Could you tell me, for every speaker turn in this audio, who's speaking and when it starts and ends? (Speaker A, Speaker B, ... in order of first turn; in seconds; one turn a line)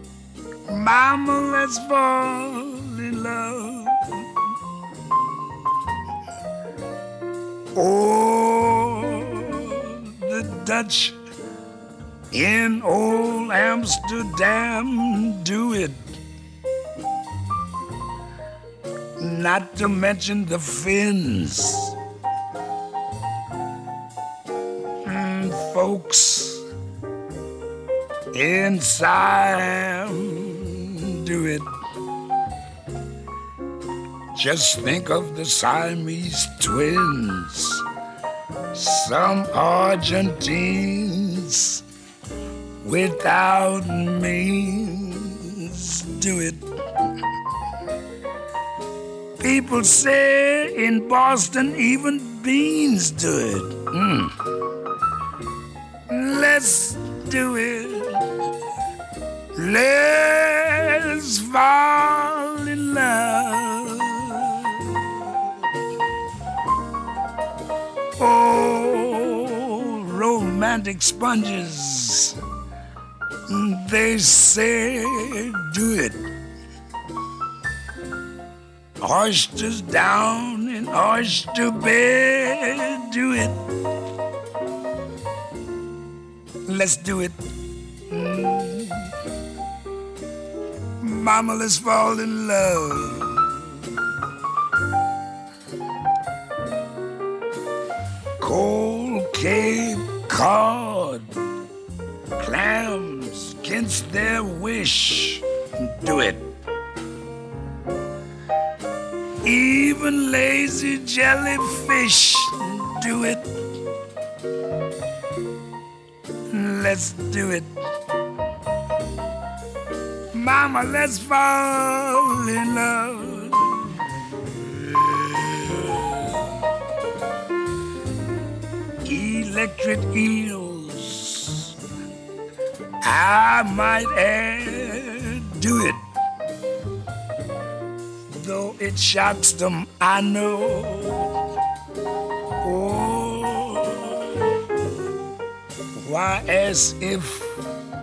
Speaker A: 0.7-4.3
Speaker A: 7.8-11.2
Speaker A: 12.3-16.2
Speaker A: 19.2-21.9
Speaker A: 25.1-26.6
Speaker A: 28.3-31.7
Speaker A: 34.4-37.8
Speaker A: 38.7-41.8
Speaker A: 42.8-46.6
Speaker A: 49.4-54.3
Speaker A: 56.1-58.2
Speaker A: 59.5-65.0
Speaker A: 68.2-72.4
Speaker A: 73.5-76.3
Speaker A: 79.0-83.6
Speaker A: 86.7-87.4
Speaker A: 88.1-89.1
Speaker A: 91.0-93.7
Speaker A: 98.4-101.3
Speaker A: 102.4-106.4
Speaker A: 109.4-113.5
Speaker A: 116.5-117.7
Speaker A: 120.3-124.0
Speaker A: 125.0-126.4
Speaker A: 129.0-131.7
Speaker A: 133.0-136.0
Speaker A: 138.3-141.3
Speaker A: 142.6-144.3
Speaker A: 146.0-147.5